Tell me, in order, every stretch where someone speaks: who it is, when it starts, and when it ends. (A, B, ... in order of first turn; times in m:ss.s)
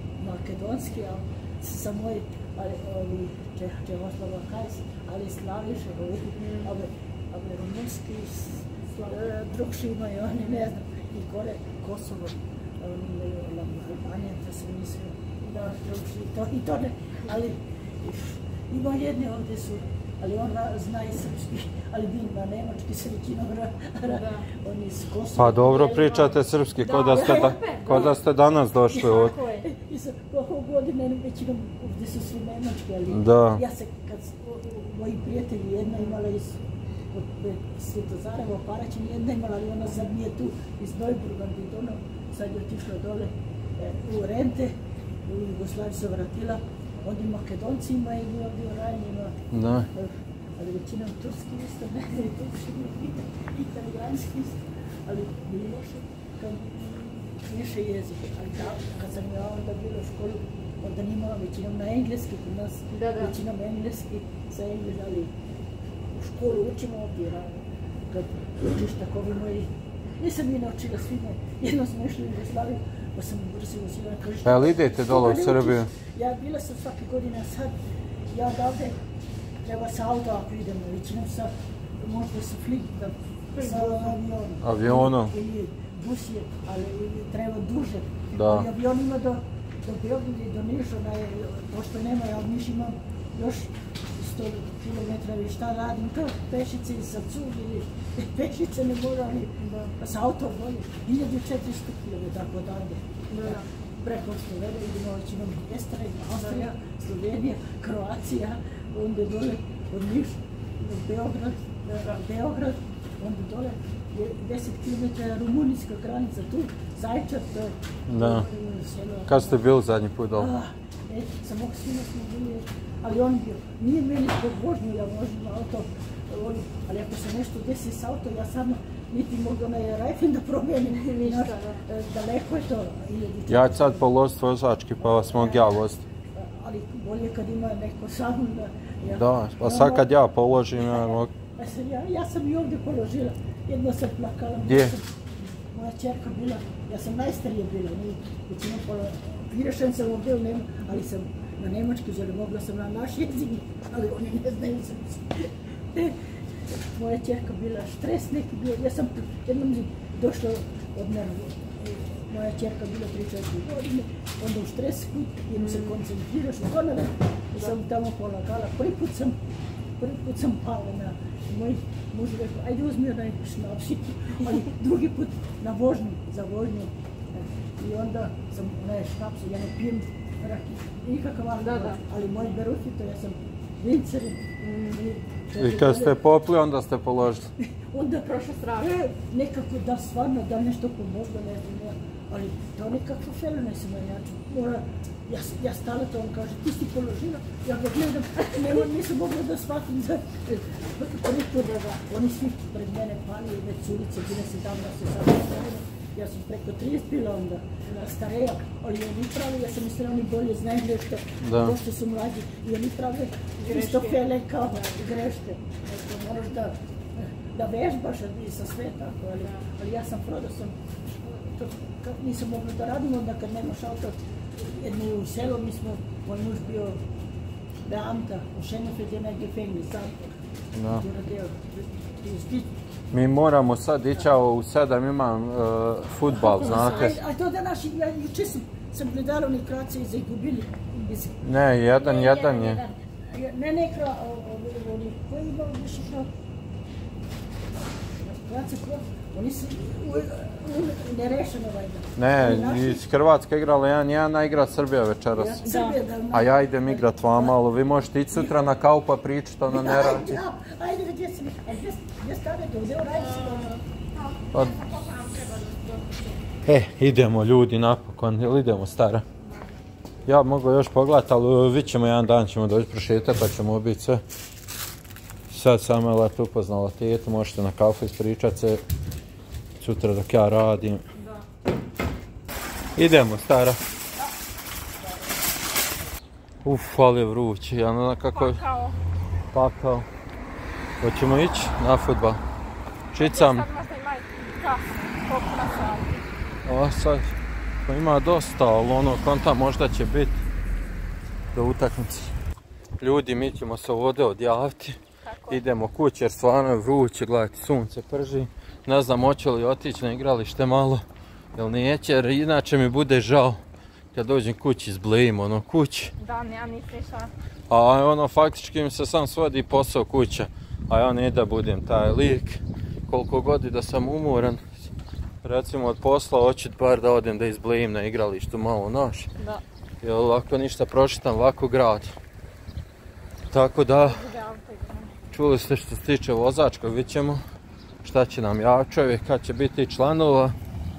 0:00.2-0:26.0 A
0:06.4-0:06.7 B
0:24.0-0:24.5 B
0:25.3-0:29.4 C
0:25.6-0:28.2 B
0:27.0-0:27.6 A
0:28.9-0:29.7 B
0:28.9-0:36.6 A
0:33.1-0:33.6 C
0:37.1-0:44.8 A
0:45.3-0:49.4 A
0:49.5-0:49.9 C
0:49.9-1:05.3 A
1:02.9-1:03.3 B
1:06.1-1:17.7 A
1:14.4-1:15.9 C
1:18.3-1:19.0 A
1:19.6-1:59.6 A
1:23.5-1:24.2 B
1:24.6-1:25.3 C
1:28.3-1:28.7 C
1:39.6-1:39.9 B
1:43.3-1:43.6 B
1:46.4-1:46.6 B
1:58.1-1:58.5 C
1:59.3-2:00.5 C
2:00.4-2:14.1 A
2:10.9-2:11.8 B
2:13.5-2:16.0 C
2:15.0-2:15.8 A
2:16.3-2:20.1 A
2:19.1-2:21.3 C
2:20.8-2:25.1 A
2:24.6-2:24.9 C
2:25.7-2:36.2 A
2:36.9-2:49.4 A
2:45.6-2:46.0 B
2:50.0-3:06.2 A
3:01.6-3:02.0 B
3:04.6-3:05.0 B
3:05.6-3:07.5 C
3:07.6-3:47.0 A
3:08.2-3:09.0 B
3:31.4-3:31.8 C
3:33.6-3:35.0 B
3:39.4-3:39.7 B
3:47.9-3:52.7 A
3:50.7-3:51.0 C
3:53.1-3:57.2 C
3:56.3-4:01.4 A
4:01.4-4:02.8 C
4:02.0-4:06.3 A
4:08.2-4:13.0 A
4:12.2-4:15.6 C
4:15.3-4:17.6 A
4:15.6-4:16.0 B
4:16.3-4:20.4 C
4:19.7-4:23.7 A
4:23.1-4:26.4 B
4:24.5-4:24.8 C
4:26.6-4:29.2 C
4:29.4-4:29.7 B
4:30.2-4:34.2 C
4:35.5-4:38.8 C
4:39.8-4:41.0 C
4:41.1-4:41.4 B
4:43.0-4:43.8 C
4:46.6-4:48.6 C
4:48.3-4:49.0 B
4:49.5-4:50.1 C
4:51.0-4:52.4 C
4:53.1-4:53.6 C
4:53.1-4:56.3 B
4:56.6-4:57.3 C
4:57.9-5:00.4 C
5:01.5-5:02.3 C
5:03.0-5:05.0 C
5:05.2-5:05.6 B
5:05.5-5:13.6 C
5:14.1-5:16.1 C
5:16.2-5:17.3 B
5:17.7-5:24.9 C
5:25.4-5:29.3 C
5:30.0-5:32.1 C
5:33.5-5:34.2 C
5:34.0-5:35.1 B
5:35.3-5:37.4 C
5:38.0-5:40.5 C